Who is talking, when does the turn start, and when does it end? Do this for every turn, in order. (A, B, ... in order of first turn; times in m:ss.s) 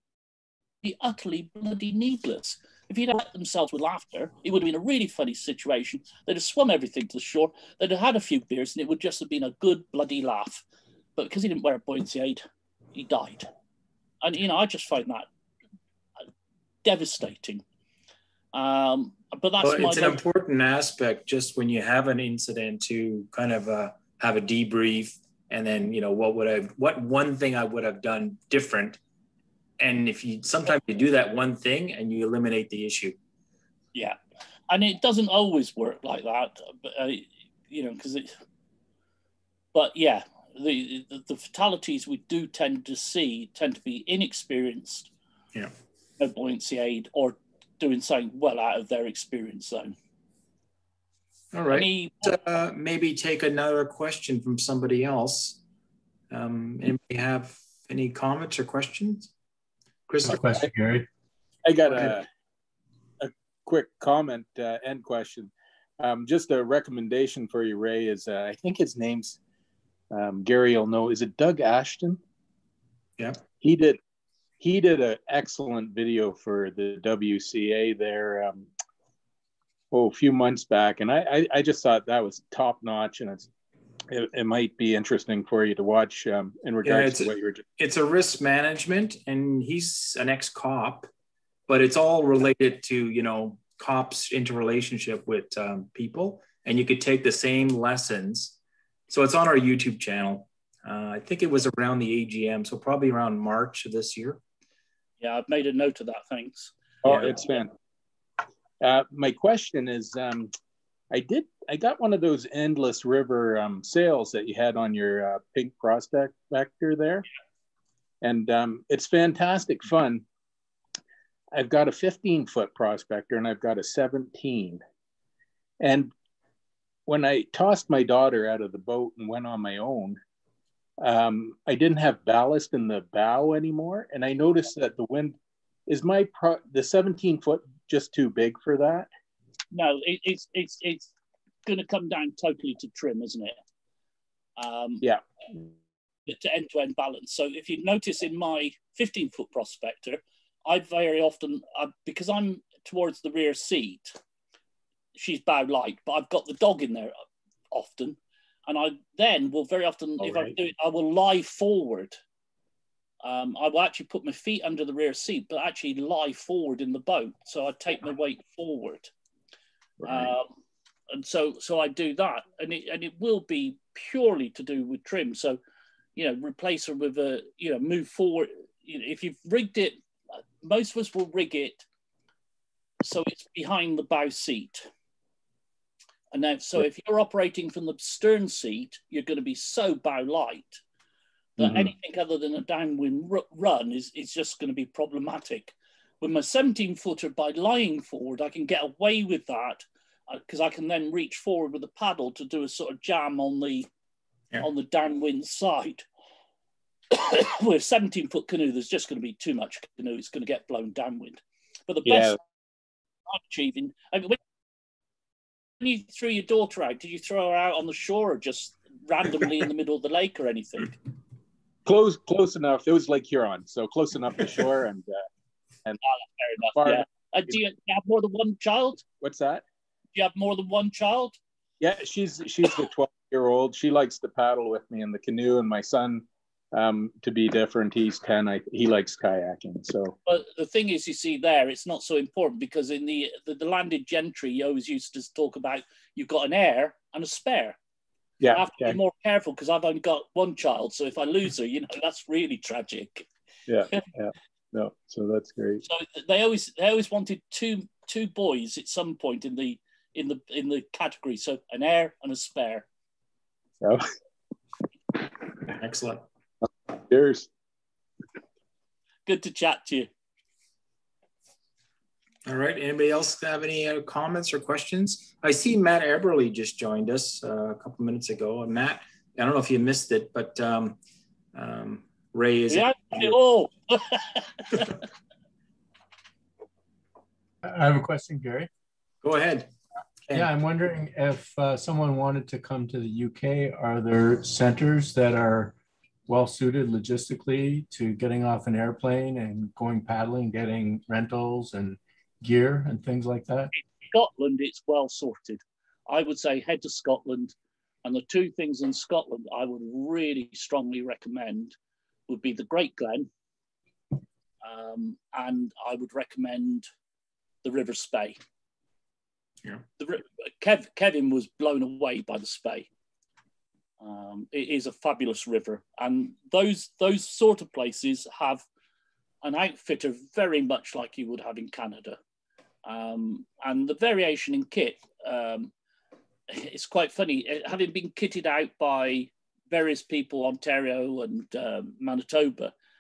0:00.8-0:10.6 A
0:11.2-0:13.5 A
0:14.2-0:15.3 A
0:16.8-0:17.6 A
0:18.5-0:20.2 A
0:19.6-0:29.0 B
0:29.8-0:33.2 B
0:34.7-0:38.4 A
0:39.7-0:45.1 A
0:46.2-0:49.9 A
0:51.5-0:55.6 B
0:51.7-0:52.3 A
0:56.3-0:59.3 B
1:00.1-1:00.6 B
1:00.2-1:01.1 C
1:01.6-1:02.3 D
1:03.2-1:09.4 D
1:10.1-1:12.2 D
1:13.6-1:14.0 D
1:14.6-1:18.7 D
1:19.9-1:23.5 D
1:24.1-1:27.6 D
1:26.8-1:31.1 B
1:31.7-1:38.6 B
1:39.1-1:44.4 B
1:45.2-1:46.7 A
1:47.0-1:47.7 D
1:47.0-1:47.4 B
1:48.8-1:50.5 D
1:51.1-1:57.2 D
1:58.2-2:00.2 D
2:01.5-2:04.8 D
2:05.8-2:06.1 D
2:07.0-2:10.2 D
2:11.0-2:15.3 D
2:15.9-2:19.1 D
2:19.7-2:21.1 A
2:21.6-2:23.6 A
2:24.6-2:25.0 A
2:26.3-2:34.2 A
2:35.1-2:37.1 A
2:37.7-2:42.2 A
2:40.2-2:40.5 D
2:43.2-2:49.1 A
2:50.0-2:50.3 D
2:50.0-2:50.5 A
2:51.1-2:55.6 A
2:56.2-3:00.0 A
3:00.6-3:01.8 A
3:03.0-3:04.9 A
3:06.3-3:10.8 A
3:11.6-3:23.9 A
3:24.6-3:26.0 A
3:27.1-3:32.4 A
3:32.0-3:32.4 D
3:33.3-3:34.4 A
3:35.8-3:41.0 A
3:41.8-3:45.2 D
3:46.0-3:49.0 A
3:46.8-3:47.1 D
3:49.2-3:49.6 D
3:50.1-3:51.4 A
3:51.8-4:00.2 D
4:00.2-4:07.8 A
4:08.4-4:09.0 D
4:08.5-4:13.3 A
4:13.7-4:15.8 D
4:15.8-4:22.9 A
4:25.7-4:26.2 B
4:26.9-4:27.5 D
4:29.2-4:30.1 A
4:32.4-4:41.0 B
4:41.5-4:43.4 B
4:42.7-4:45.0 A
4:47.6-4:48.7 C
4:49.2-4:49.7 B
4:50.3-4:55.7 C
4:56.3-5:03.7 C
5:03.7-5:11.7 A
5:12.3-5:13.3 A
5:14.6-5:16.8 A
5:17.6-5:18.4 A
5:20.0-5:22.9 A
5:24.0-5:28.6 A
5:29.4-5:32.2 A
5:32.8-5:35.7 A
5:36.5-5:42.7 A